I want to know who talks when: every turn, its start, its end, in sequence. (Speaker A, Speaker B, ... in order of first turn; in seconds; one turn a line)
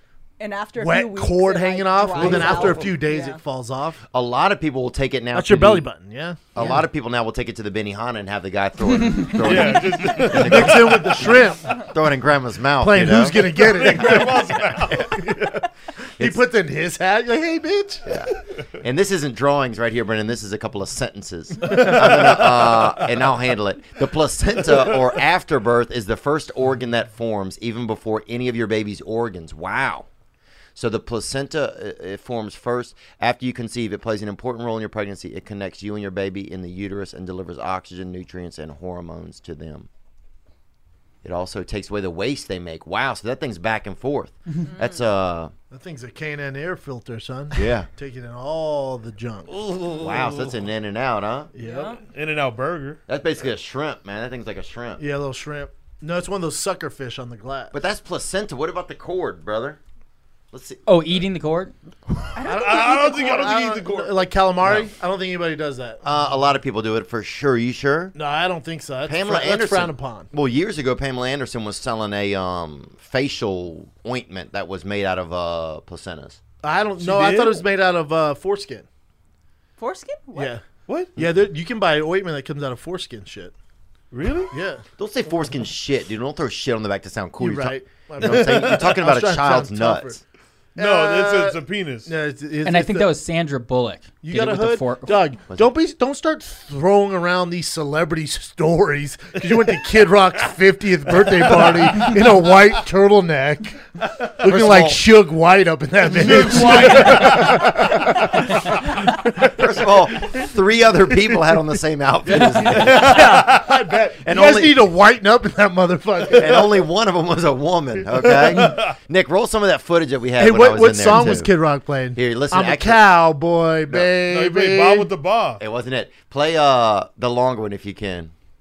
Speaker A: 0.4-3.4
Speaker B: 0.8-4.0
Speaker C: 2.2-2.5
Speaker C: 4.1-5.8
Speaker B: 5.3-6.8
Speaker C: 6.5-15.0
Speaker D: 9.4-11.5
Speaker B: 10.2-11.7
Speaker B: 12.8-15.6
Speaker D: 13.5-15.5
Speaker B: 16.2-18.1
Speaker C: 18.1-30.1
Speaker D: 21.6-22.9
Speaker C: 30.7-39.9
Speaker C: 41.2-45.5
Speaker A: 44.6-45.0
Speaker B: 45.7-49.5
Speaker C: 47.5-47.9
Speaker D: 49.6-50.5
Speaker C: 50.0-51.5
Speaker B: 51.5-52.0
Speaker A: 51.6-52.0
Speaker D: 52.1-53.0
Speaker C: 53.1-55.0
Speaker B: 55.0-57.8
Speaker C: 57.7-59.8
Speaker C: 60.5-60.8
Speaker E: 60.9-61.7
Speaker A: 62.4-63.1
Speaker B: 62.4-66.4
Speaker D: 62.4-64.2
Speaker C: 66.0-68.1
Speaker B: 68.1-70.3
Speaker C: 69.1-76.4
Speaker B: 76.6-78.9
Speaker D: 77.0-77.6
Speaker A: 79.8-80.5
Speaker B: 80.3-80.6
Speaker D: 80.9-81.1
Speaker B: 81.2-83.5
Speaker D: 84.1-84.5
Speaker B: 84.5-84.8
Speaker C: 85.0-90.2
Speaker B: 87.4-90.2
Speaker D: 88.2-88.8
Speaker B: 90.8-93.1
Speaker D: 90.8-92.1
Speaker E: 92.6-95.2
Speaker B: 94.2-103.8
Speaker B: 104.4-108.4
Speaker C: 104.4-105.1
Speaker D: 106.1-107.7
Speaker C: 106.3-107.1
Speaker C: 109.4-113.5
Speaker B: 112.3-116.7
Speaker D: 112.3-114.0
Speaker C: 114.2-114.9
Speaker C: 116.3-121.5
Speaker D: 118.2-118.9
Speaker B: 120.4-125.1
Speaker C: 122.1-123.0
Speaker D: 124.0-125.6
Speaker C: 125.6-128.3